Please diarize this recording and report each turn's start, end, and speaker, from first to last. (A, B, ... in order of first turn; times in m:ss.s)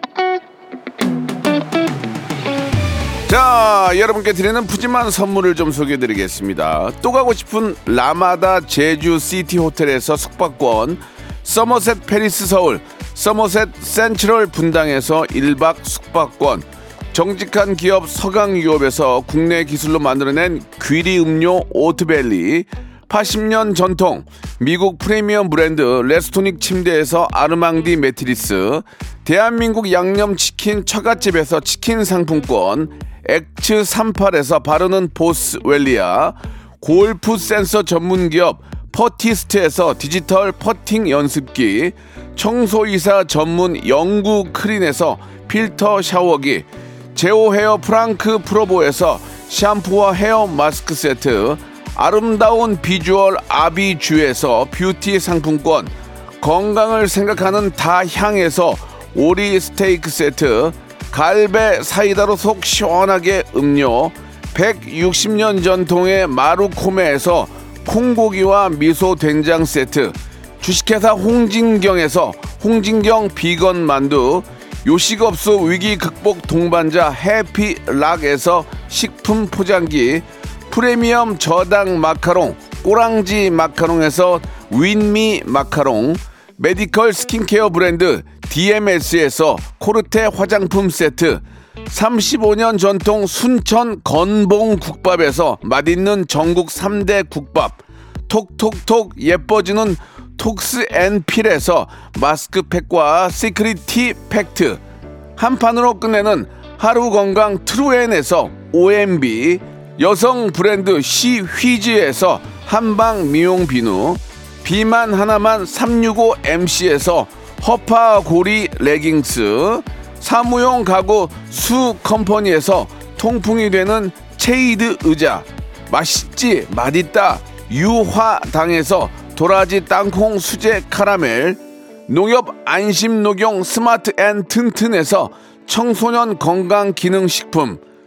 0:03.3-1:44.8 A
1:45.4-2:17.8 A